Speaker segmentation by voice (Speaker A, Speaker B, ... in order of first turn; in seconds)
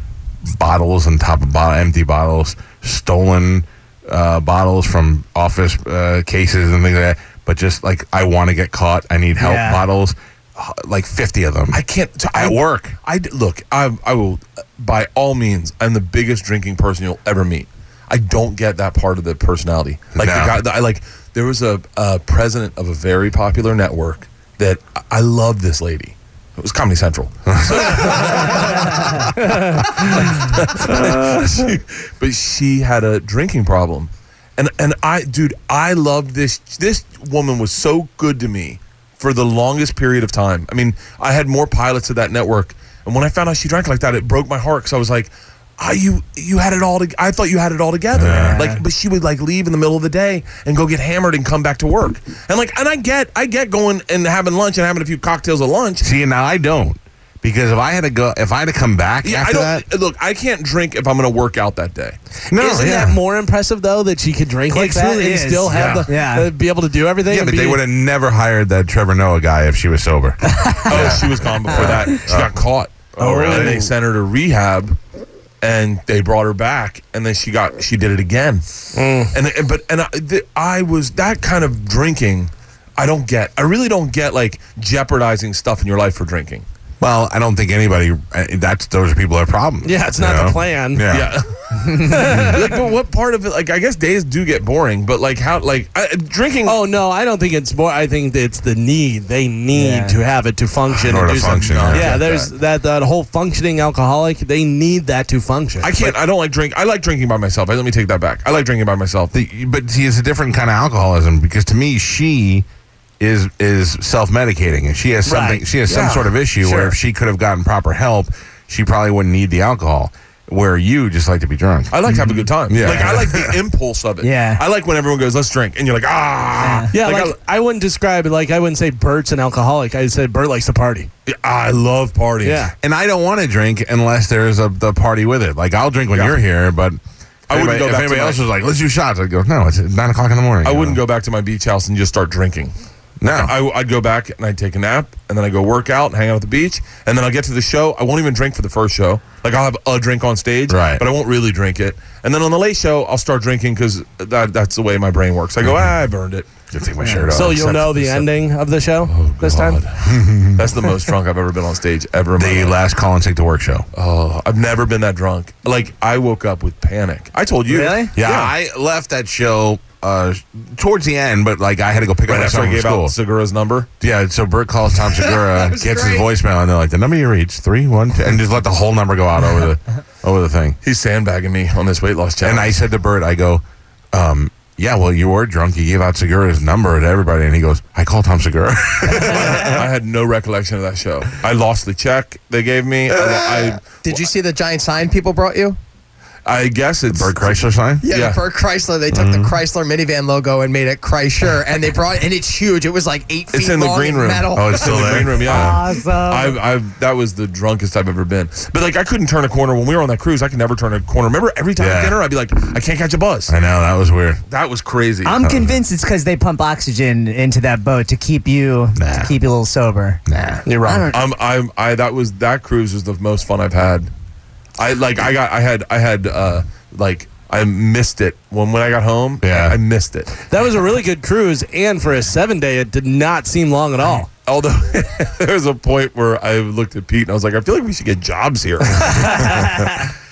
Speaker A: 0.4-13.0, 20.1-20.6, 27.5-29.1, 30.6-31.3, 48.1-48.6, 56.0-59.9, 62.5-63.2, 65.7-66.0, 67.3-72.6, 73.2-73.8, 87.0-91.4, 101.0-102.2, 109.3-112.7, 113.2-122.1, 122.7-123.6, 132.8-141.0, 143.2-143.6, 150.7-151.1, 155.7-155.9, 156.7-158.3, 160.1-160.7, 162.4-163.9, 168.2-173.2, 174.0-180.8, 182.4-189.9, 193.1-193.8, 197.1-198.1, 199.1-199.6, 204.5-205.8, 211.8-212.2, 213.5-214.4, 215.4-215.8, 218.9-219.3, 220.3-220.7, 229.4-229.8, 239.4-239.9
Speaker B: 9.4-9.8, 48.3-48.8, 64.7-66.5, 70.5-72.2, 73.2-73.9, 99.7-100.2, 115.3-115.7, 122.1-123.1, 124.2-124.6, 126.6-127.0, 167.7-168.2, 205.4-206.6, 215.2-220.2, 220.8-221.2
Speaker C: 11.7-56.1, 59.2-62.2, 65.8-66.0, 70.9-75.0, 75.6-78.7, 79.2-86.7, 91.1-96.8, 101.1-102.5, 105.8-109.3, 115.9-116.3, 121.9-127.4, 131.3-132.7, 136.1-136.4, 137.5-138.4, 140.6-142.7, 143.3-156.5, 159.1-162.8, 163.9-168.5, 172.3-173.9, 180.8-182.8, 189.5-194.2, 196.5-198.4, 203.5-213.5, 214.5-215.4, 221.1-224.1, 224.8-230.3, 234.5-239.4
Speaker D: 29.4-29.8, 62.5-67.8, 79.0-79.3, 89.8-91.1, 92.0-92.7, 96.7-106.2, 116.6-117.0, 126.9-131.1, 132.4-132.8, 157.1-159.8, 220.7-221.1, 230.5-234.3
Speaker E: 175.3-176.3, 194.0-195.8, 198.0-205.3